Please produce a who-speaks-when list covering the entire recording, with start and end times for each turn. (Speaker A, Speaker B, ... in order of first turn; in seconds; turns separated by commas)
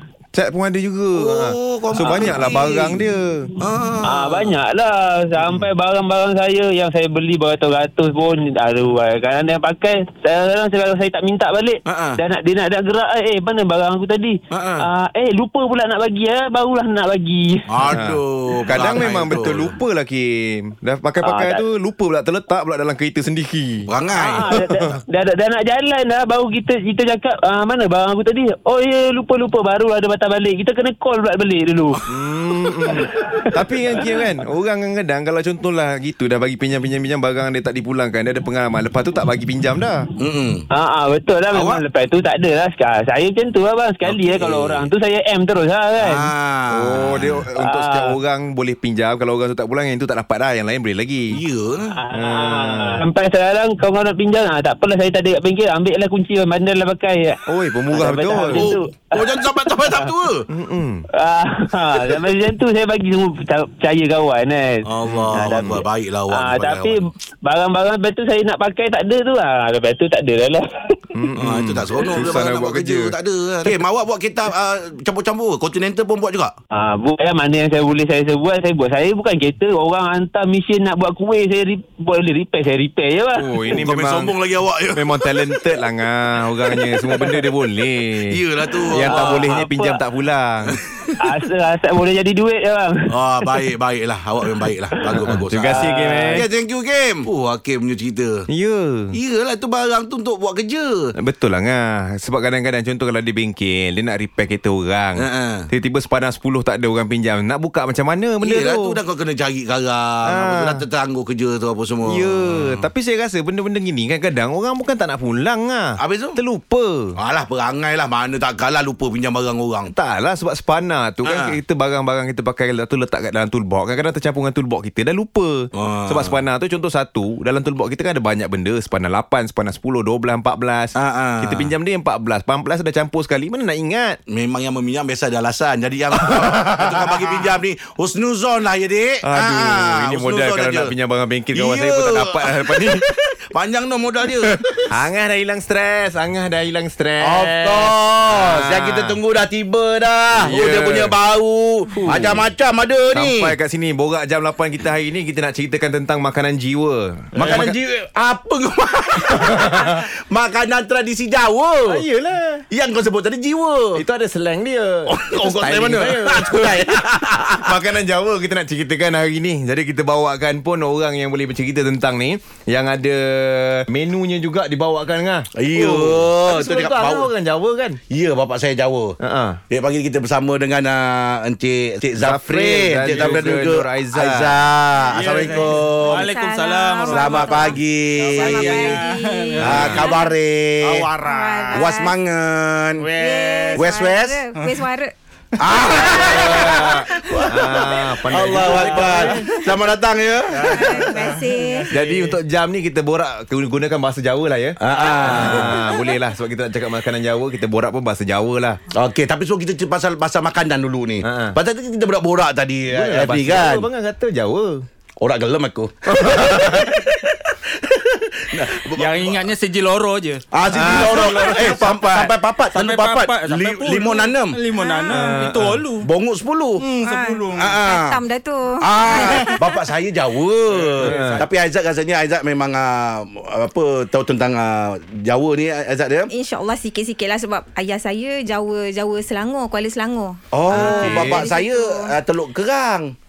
Speaker A: 0.3-3.5, Speaker B: 1.1-3.0, Speaker C: 2.0-2.5, Speaker B: 3.6-4.6, Speaker C: 4.0-17.9, Speaker A: 5.4-5.7, Speaker B: 11.9-12.2, Speaker B: 14.5-14.8, Speaker B: 17.7-19.8, Speaker A: 17.9-23.9, Speaker C: 21.2-21.6, Speaker B: 23.9-24.6, Speaker C: 24.1-32.0, Speaker A: 24.6-25.0, Speaker A: 32.1-40.0, Speaker C: 32.9-34.2, Speaker B: 40.2-40.6, Speaker C: 40.7-46.3, Speaker B: 41.5-41.8, Speaker B: 44.0-44.9, Speaker B: 46.0-47.4, Speaker A: 46.7-51.4, Speaker C: 47.6-48.2, Speaker B: 51.3-52.0, Speaker C: 51.9-60.1, Speaker A: 52.1-53.0, Speaker A: 57.5-58.7, Speaker B: 58.5-60.5, Speaker A: 60.5-61.1, Speaker C: 61.1-71.2, Speaker B: 64.8-67.0, Speaker A: 65.1-65.6, Speaker A: 71.1-73.1, Speaker B: 71.4-76.5, Speaker C: 76.7-83.7, Speaker A: 83.3-84.3, Speaker B: 83.7-85.8, Speaker A: 84.9-90.8, Speaker B: 86.7-87.4, Speaker B: 88.2-89.7, Speaker C: 88.7-90.0, Speaker B: 90.7-91.1, Speaker C: 91.2-93.7, Speaker B: 93.1-95.8, Speaker C: 94.6-96.5, Speaker A: 95.2-96.5, Speaker B: 96.3-98.5, Speaker A: 98.5-99.2, Speaker B: 99.1-101.2, Speaker A: 101.2-109.0, Speaker B: 105.2-105.7, Speaker B: 108.4-112.9, Speaker A: 110.2-110.8, Speaker A: 112.1-117.2, Speaker B: 116.0-116.4, Speaker B: 117.2-119.9, Speaker A: 119.9-134.2, Speaker B: 121.2-121.5, Speaker B: 125.8-126.4, Speaker B: 130.9-131.7, Speaker B: 134.3-140.9, Speaker A: 136.2-137.3, Speaker A: 139.2-143.2, Speaker B: 141.5-144.9, Speaker A: 144.4-149.2, Speaker B: 147.2-153.5, Speaker A: 150.3-151.2, Speaker A: 152.0-152.4, Speaker A: 153.1-157.8, Speaker B: 157.4-162.0, Speaker D: 157.4-157.7, Speaker A: 159.3-160.1, Speaker A: 161.9-162.7, Speaker B: 162.7-164.0, Speaker A: 163.9-178.0, Speaker B: 165.1-167.8, Speaker B: 175.6-177.3, Speaker B: 178.1-179.2, Speaker A: 179.2-179.6, Speaker B: 179.7-186.2, Speaker A: 182.2-184.6, Speaker D: 185.1-190.2, Speaker E: 185.5-187.8, Speaker B: 187.1-189.0, Speaker E: 188.3-190.3, Speaker A: 189.6-190.1, Speaker B: 189.6-191.1, Speaker D: 190.8-191.9, Speaker E: 191.2-192.1, Speaker B: 191.7-193.1, Speaker D: 193.0-194.0, Speaker E: 193.2-195.1, Speaker B: 193.8-194.4, Speaker D: 194.6-194.8, Speaker B: 195.6-201.1, Speaker D: 195.7-197.0, Speaker E: 195.8-197.8, Speaker A: 196.2-199.3, Speaker D: 198.4-199.6, Speaker E: 199.3-199.6, Speaker D: 200.5-202.4, Speaker E: 200.7-201.9, Speaker A: 201.9-208.8, Speaker B: 204.8-205.8, Speaker D: 205.2-205.6, Speaker E: 205.7-206.1, Speaker B: 208.9-213.9, Speaker A: 211.2-211.6, Speaker A: 212.9-214.8, Speaker B: 215.2-219.5, Speaker A: 216.1-217.0, Speaker D: 218.9-226.1, Speaker B: 220.5-224.6, Speaker A: 220.7-222.0, Speaker E: 224.7-225.3, Speaker A: 225.1-225.8, Speaker B: 226.0-226.8, Speaker D: 226.8-227.8, Speaker E: 227.0-229.6, Speaker B: 227.6-228.2, Speaker B: 228.8-236.3, Speaker D: 229.2-229.6, Speaker D: 230.8-231.4, Speaker A: 231.0-231.4, Speaker E: 236.3-242.1, Speaker B: 240.5-243.1, Speaker A: 240.7-241.5